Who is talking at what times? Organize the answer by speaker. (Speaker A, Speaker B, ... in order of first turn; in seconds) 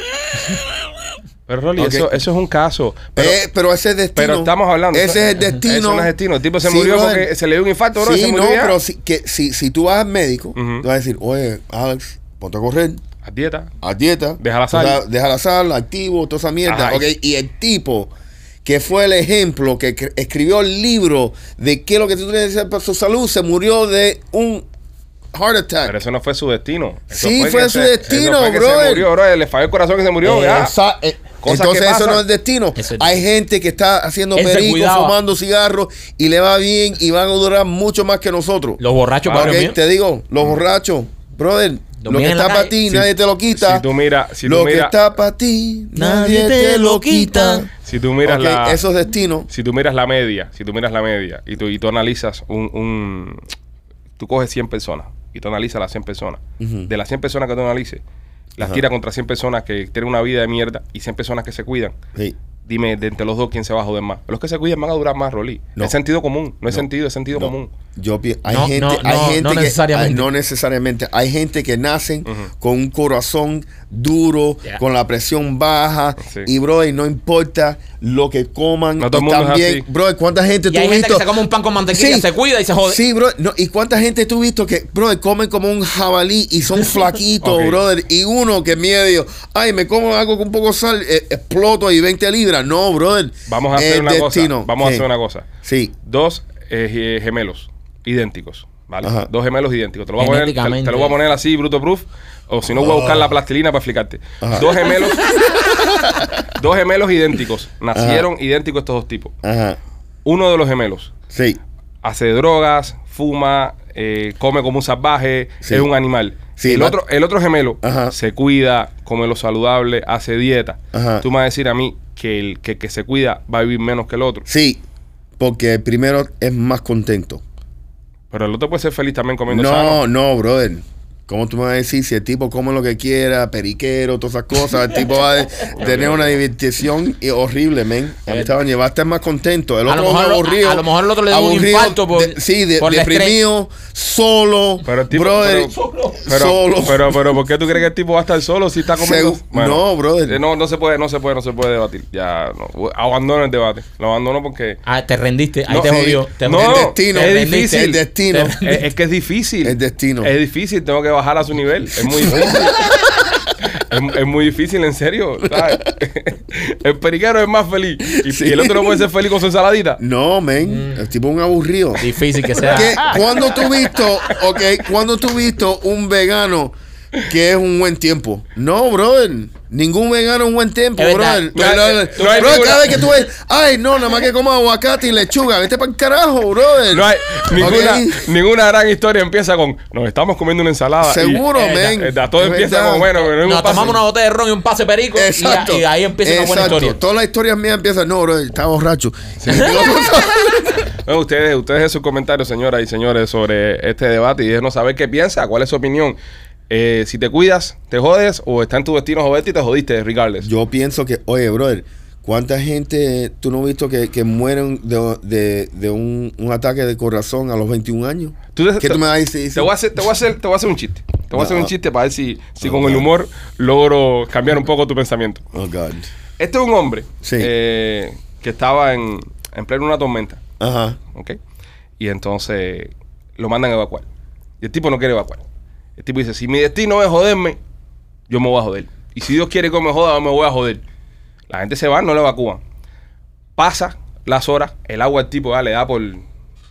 Speaker A: 1.5-3.4, 4.2-8.8, 10.6-10.9, 13.2-13.7, 14.4-15.0, 16.7-17.1, 25.9-30.7, 31.4-32.2, 39.3-39.6, 43.5-45.0, 47.8-48.8, 49.5-53.4, 54.2-58.0, 58.6-61.9, 62.7-67.7, 79.0-79.8, 87.4-87.8, 93.5-95.5, 96.1-105.3, 106.5-109.3, 110.2-111.1, 112.0-124.5, 128.3-130.0, 135.8-136.4, 144.8-145.7, 146.3-154.8, 155.7-158.0, 158.6-162.8, 163.7-170.0, 181.6-183.0, 186.9-194.0, 199.4-199.8, 200.9-206.2, 206.7-210.5, 218.5-225.4, 226.4-230.4, 232.0-234.1, 234.6-235.4, 236.0-237.6, 238.3-240.8, 241.5-242.6, 243.6-246.2
Speaker B: 1.8-2.2, 3.2-7.3, 8.0-13.0, 13.8-18.1, 18.6-24.6, 25.3-26.0, 27.1-29.1, 30.2-43.9, 44.4-47.7, 48.2-49.5, 56.6-56.9, 58.6-58.8, 66.7-81.3, 81.9-82.3, 82.8-95.1, 95.6-95.9, 99.0-99.3, 102.7-103.3, 104.4-104.8, 105.7-106.3, 108.0-108.3, 109.4-109.8, 111.3-111.6, 115.6-115.9, 116.6-117.0, 117.8-118.2, 120.9-121.3, 124.5-124.8, 125.4-127.4, 129.5-147.3, 148.9-150.4, 155.8-158.6, 159.6-160.3, 162.2-163.2, 165.5-165.8, 168.2-169.0, 170.0-172.1, 172.6-188.3, 191.0-193.2, 195.1-200.8, 210.4-219.7, 221.3-221.7, 222.6-223.1, 225.5-226.1, 227.2-227.5, 230.6-231.0
Speaker C: 32.8-33.2, 34.4-35.2, 38.8-39.8, 42.0-43.1, 46.0-47.7, 68.5-70.3, 80.7-83.0, 100.2-101.2, 138.3-138.6, 139.9-143.4, 145.7-146.3, 154.8-158.8, 170.6-171.0, 172.0-173.6, 181.0-182.9, 193.3-197.0